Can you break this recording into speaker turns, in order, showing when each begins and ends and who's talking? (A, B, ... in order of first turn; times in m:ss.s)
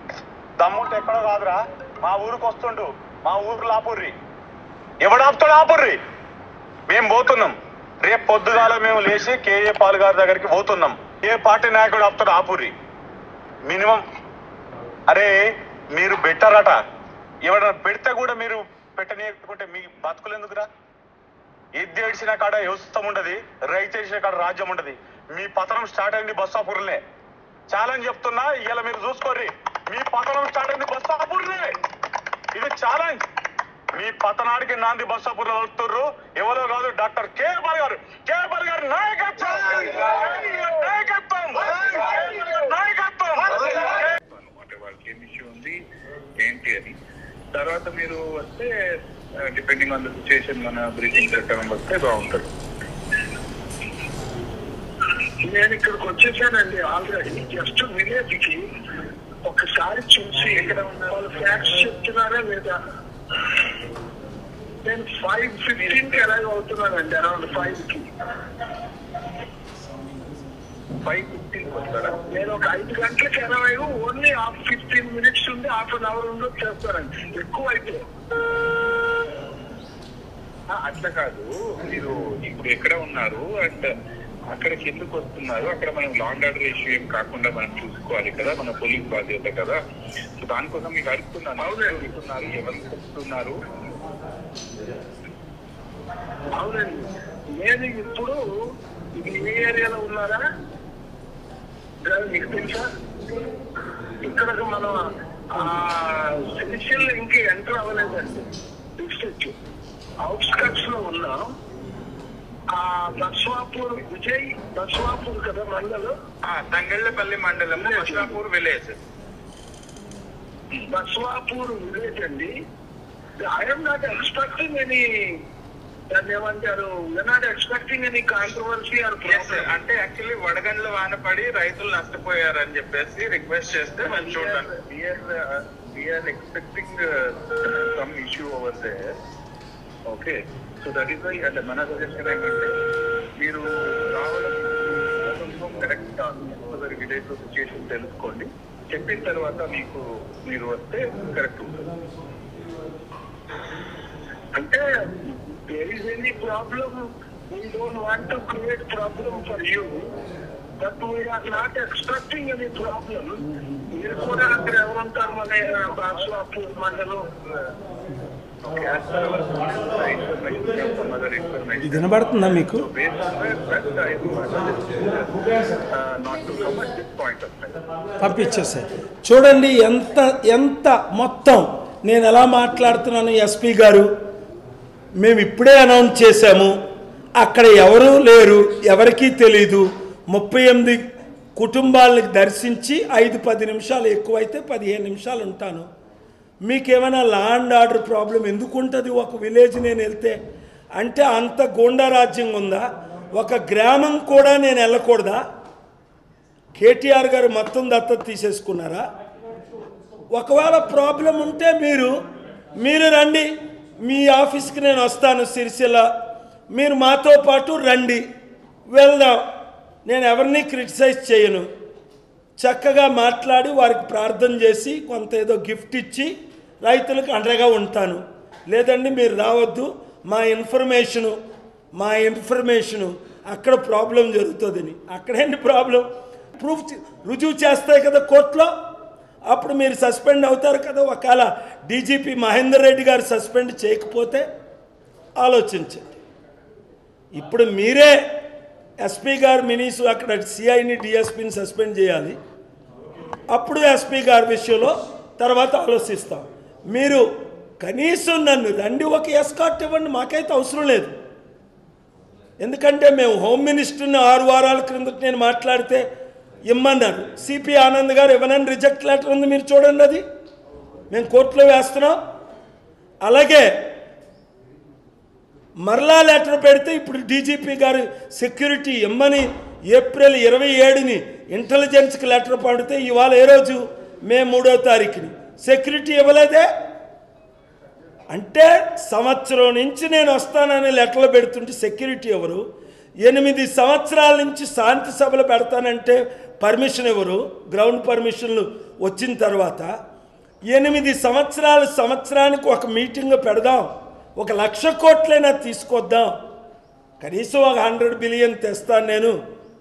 0:00.6-0:04.1 A
0:05.0-0:06.0 A
0:06.9-0:12.7 A
0:13.6-0:14.0 A
0:15.1-0:15.3 A
0:15.9-0:16.8 A
0:17.4-0:20.7 A
0:21.7-0:27.0 A
0:27.7-0:31.7 A
0:32.5-0:33.2 A
0:33.9-0:44.0 A
0:43.7-0:45.7 B
0:46.4-0:46.9 B
0:47.5-0:48.7 B
0:49.4-0:52.5 B
0:55.4-0:58.6 C
0:59.4-1:02.8 C
1:04.8-1:08.1 C
1:05.8-1:06.3 B
1:11.0-1:12.2 B
1:12.3-1:18.0 C
1:20.7-1:23.9 B
1:24.5-1:29.8 B
1:30.4-1:33.5 B
1:31.6-1:32.0 C
1:36.6-1:37.1 C
1:37.6-1:38.4 C
1:39.2-1:40.4 C
1:42.0-1:42.8 C
1:44.2-1:45.0 C
1:45.5-1:48.4 C
1:49.0-1:49.5 C
1:50.2-1:51.4 C
1:52.7-1:56.2 C
1:56.4-1:59.0 B
1:57.7-1:58.4 C
2:00.9-2:02.5 C
2:03.4-2:05.0 C
2:06.1-2:09.7 C
2:09.2-2:17.0 B
2:14.0-2:14.6 C
2:17.6-2:19.0 B
2:20.1-2:22.7 B
2:23.4-2:23.6 B
2:24.2-2:31.8 B
2:34.5-2:34.8 C
2:35.7-2:40.0 C
2:40.8-2:43.4 C
2:43.9-2:47.2 C
2:48.6-2:55.4 B
2:51.8-2:52.8 D
2:55.9-2:57.8 B
2:58.2-3:04.1 D
3:05.2-3:06.7 D
3:07.4-3:11.0 D
3:11.6-3:15.9 D
3:16.6-3:20.4 D
3:21.0-3:25.4 D
3:26.8-3:29.0 D
3:30.3-3:32.2 D
3:32.8-3:33.5 D
3:34.0-3:36.1 D
3:36.7-3:38.2 D
3:38.9-3:39.4 D
3:40.0-3:41.7 D
3:42.6-3:51.4 D
3:52.0-3:58.7 D
3:59.5-4:04.5 D
4:05.4-4:06.1 D
4:07.3-4:08.2 D
4:09.0-4:12.4 D
4:13.5-4:17.2 D
4:17.8-4:21.1 D
4:22.6-4:26.0 D
4:26.7-4:30.2 D
4:31.1-4:32.2 D
4:33.2-4:33.9 D
4:35.8-4:46.7 D
4:48.3-4:52.6 D
4:53.2-4:59.9 D
5:00.7-5:06.3 D
5:07.2-5:09.3 D